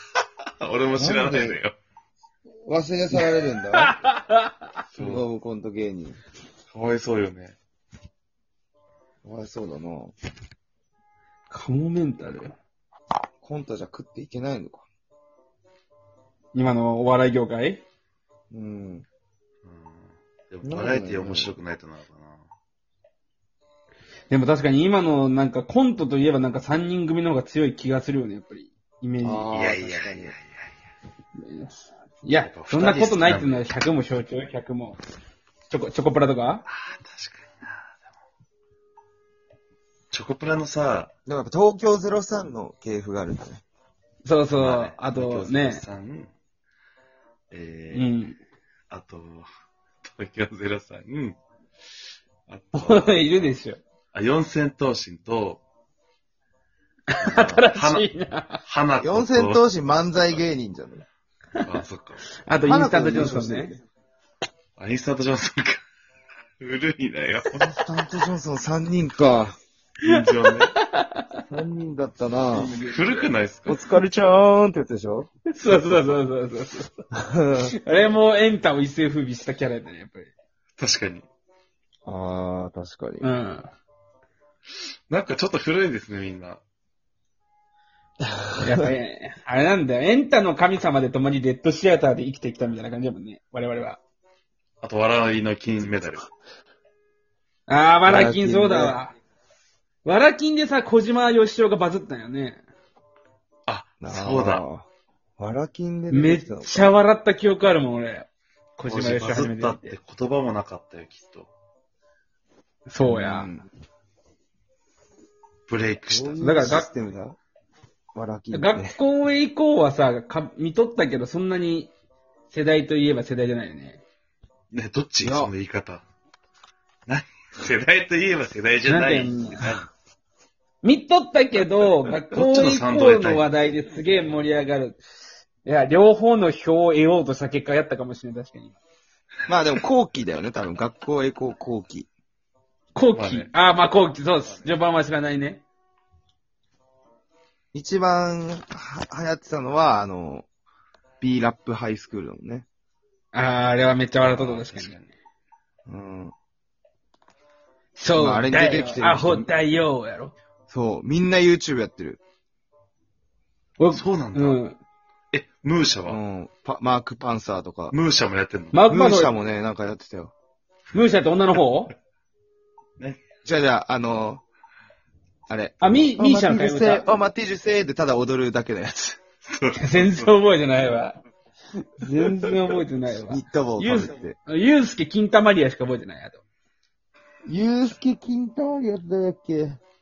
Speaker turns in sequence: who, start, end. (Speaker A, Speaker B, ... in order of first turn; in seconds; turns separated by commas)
Speaker A: 0.6-1.8, Speaker B: 0.9-1.6, Speaker B: 2.6-3.9, Speaker C: 3.2-4.6, Speaker A: 4.9-5.2, Speaker B: 5.0-6.2, Speaker A: 6.7-7.5, Speaker B: 9.2-10.1, Speaker C: 11.5-12.6, Speaker B: 13.4-14.9, Speaker C: 16.5-17.8, Speaker B: 18.5-19.1, Speaker A: 19.6-22.5, Speaker B: 20.6-21.6, Speaker C: 24.3-29.5, Speaker B: 29.2-30.3, Speaker A: 29.5-30.8, Speaker C: 31.4-35.0, Speaker A: 32.4-33.6, Speaker C: 35.7-36.6, Speaker A: 36.6-38.0, Speaker A: 40.1-41.1, Speaker B: 41.2-43.6, Speaker C: 44.2-45.8, Speaker A: 44.5-46.3, Speaker A: 47.5-48.1, Speaker C: 47.9-48.4, Speaker A: 48.9-49.5, Speaker A: 50.0-51.4, Speaker A: 52.5-53.6, Speaker C: 52.7-53.8, Speaker A: 54.1-55.6, Speaker C: 57.1-58.6, Speaker B: 57.2-57.6, Speaker A: 57.2-58.1, Speaker A: 58.6-59.7, Speaker B: 59.0-61.0, Speaker A: 61.6-62.2, Speaker C: 62.4-63.8, Speaker B: 62.6-63.8, Speaker A: 64.8-65.8, Speaker A: 66.6-67.7, Speaker B: 67.6-69.5, Speaker A: 70.0-70.7, Speaker C: 70.0-71.4, Speaker B: 71.5-72.7, Speaker C: 72.6-73.2, Speaker A: 72.6-73.8, Speaker B: 73.7-75.3, Speaker C: 75.5-76.9, Speaker B: 77.3-77.7, Speaker C: 77.8-80.3, Speaker A: 80.8-81.2, Speaker B: 82.0-83.2, Speaker C: 83.2-83.7, Speaker A: 85.1-86.6, Speaker C: 88.6-94.0, Speaker A: 94.8-96.2, Speaker C: 97.7-99.1, Speaker B: 98.0-99.0, Speaker C: 100.0-102.6, Speaker A: 103.7-104.6, Speaker B: 104.0-106.9, Speaker C: 106.1-110.0, Speaker A: 108.8-111.5, Speaker C: 112.9-113.5, Speaker B: 113.0-113.7, Speaker A: 115.7-116.5, Speaker B: 116.1-117.4, Speaker C: 116.4-116.9, Speaker B: 118.1-119.0, Speaker C: 118.5-121.9, Speaker C: 122.5-124.0, Speaker A: 124.7-126.0, Speaker B: 125.2-125.5, Speaker A: 127.1-129.9, Speaker C: 128.8-129.7, Speaker C: 130.8-135.0, Speaker A: 132.3-133.5, Speaker C: 135.6-138.8, Speaker B: 139.5-142.1, Speaker C: 142.9-145.6, Speaker A: 143.1-143.5, Speaker B: 147.7-150.5, Speaker B: 151.2-152.7, Speaker C: 153.3-155.1, Speaker A: 154.2-155.0, Speaker B: 155.8-156.3, Speaker C: 157.9-160.3, Speaker B: 158.1-159.5, Speaker B: 160.7-162.2, Speaker C: 163.8-164.8, Speaker A: 163.9-164.6, Speaker A: 165.3-166.2, Speaker B: 166.0-168.0, Speaker A: 167.9-168.8, Speaker C: 168.7-169.3, Speaker B: 168.9-170.3, Speaker C: 170.9-171.9, Speaker A: 173.0-173.2, Speaker B: 173.4-174.4, Speaker B: 175.5-179.2, Speaker C: 175.8-177.1, Speaker A: 179.4-180.3, Speaker C: 179.8-181.2, Speaker C: 182.0-186.4, Speaker B: 183.2-184.4, Speaker B: 187.4-189.8